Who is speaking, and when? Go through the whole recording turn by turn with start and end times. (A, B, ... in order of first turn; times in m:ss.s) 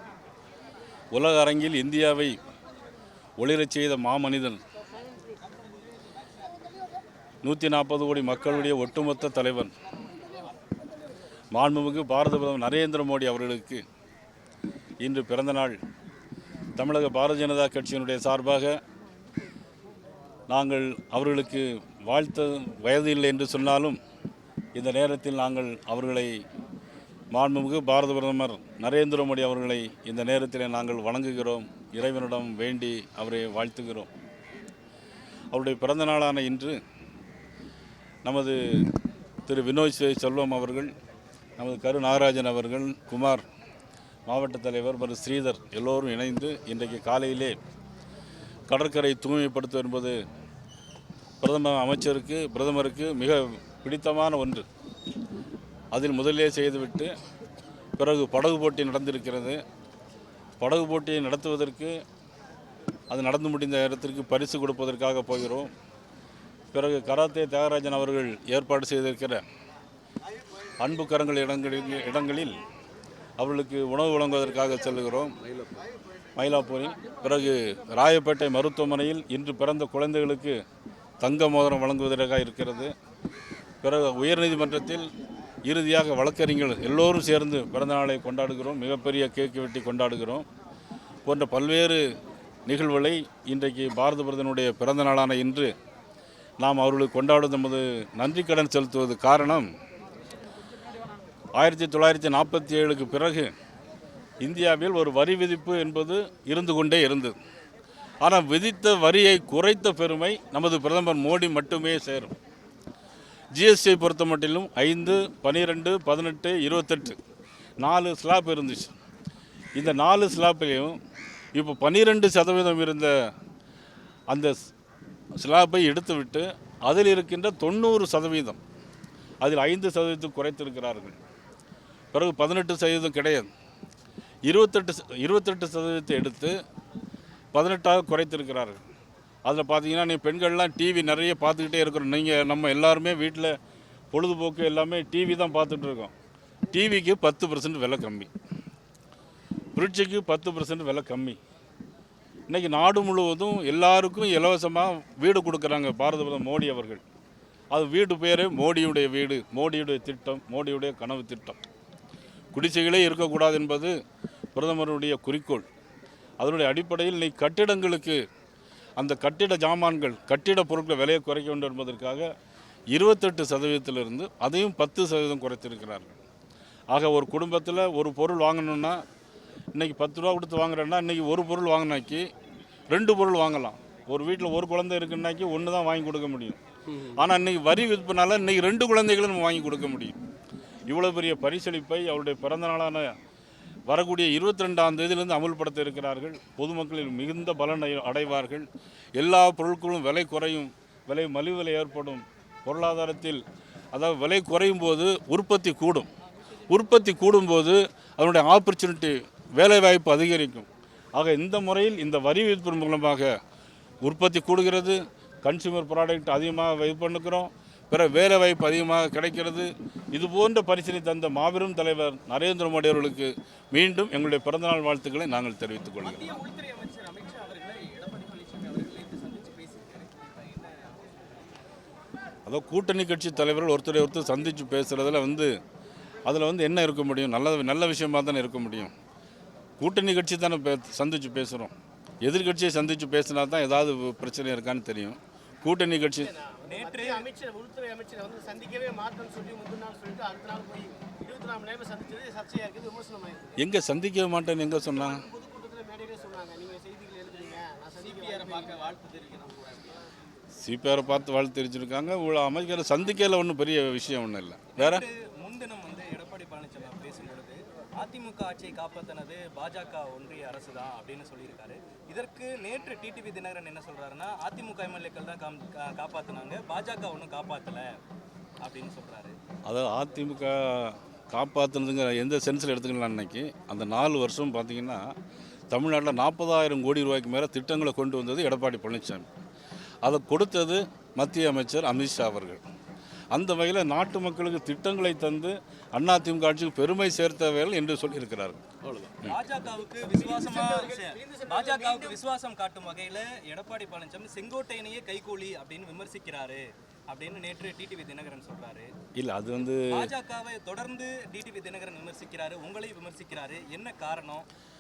0:01.1-0:02.4 A
0:03.4-0:04.6 A
0:07.4-0:09.7 A
0:11.5-0:13.8 A
0:15.0-0:15.8 A
0:16.8-0:18.8 A
0:20.5-0:24.0 A
0:24.7-0:26.4 A
0:27.3-0:34.1 A
0:35.5-0:36.8 A
0:38.2-0:38.9 A
0:39.4-0:40.9 A
0:41.6-0:43.4 A
0:44.3-0:47.6 A
0:48.7-0:50.2 A
0:51.4-0:54.6 A
0:55.9-0:57.1 A
0:58.0-0:59.6 A
1:00.6-1:02.0 A
1:03.1-1:05.7 A
1:06.7-1:09.4 A
1:10.8-1:12.6 A
1:13.4-1:15.4 A
1:16.3-1:20.6 A
1:21.2-1:22.9 A
1:23.8-1:25.1 A
1:25.6-1:30.5 A
1:31.2-1:32.1 A
1:32.6-1:35.7 A
1:36.6-1:39.7 A
1:41.5-1:43.5 A
1:44.4-1:47.4 A
1:48.2-1:52.3 A
1:53.5-1:57.2 A
1:57.8-1:58.9 A
1:59.8-2:01.0 A
2:01.5-2:03.3 A
2:04.3-2:04.7 A
2:05.4-2:08.6 A
2:09.4-2:11.2 A
2:12.1-2:13.5 A
2:14.5-2:16.6 A
2:17.5-2:18.8 A
2:19.4-2:23.6 A
2:24.1-2:26.1 A
2:26.7-2:28.3 A
2:29.7-2:31.4 A
2:32.5-2:37.0 A
2:37.7-2:41.6 A
2:42.5-2:43.9 A
2:44.5-2:45.6 A
2:46.4-2:48.2 A
2:49.0-2:52.3 A
2:52.9-2:56.2 A
2:56.9-2:59.0 A
2:59.7-3:02.3 A
3:02.9-3:10.2 A
3:10.9-3:13.1 A
3:13.9-3:18.7 A
3:19.2-3:26.1 A
3:26.7-3:33.4 A
3:34.0-3:46.4 A
3:46.0-3:51.0 B
3:52.4-3:55.5 A
3:56.2-3:58.9 A
3:59.8-4:06.3 A
4:06.2-4:13.6 C
4:06.6-4:07.3 B
4:13.6-4:15.2 A
4:14.8-4:18.8 C
4:18.0-4:19.9 B
4:20.6-4:25.0 A
4:24.7-4:38.0 B
4:38.6-4:39.4 B
4:39.6-4:45.1 A
4:45.7-4:49.3 A
4:50.0-4:52.6 A
4:53.3-4:59.4 A
4:59.2-5:08.9 B
5:00.0-5:02.2 C
5:09.2-5:10.1 A
5:09.9-5:14.4 B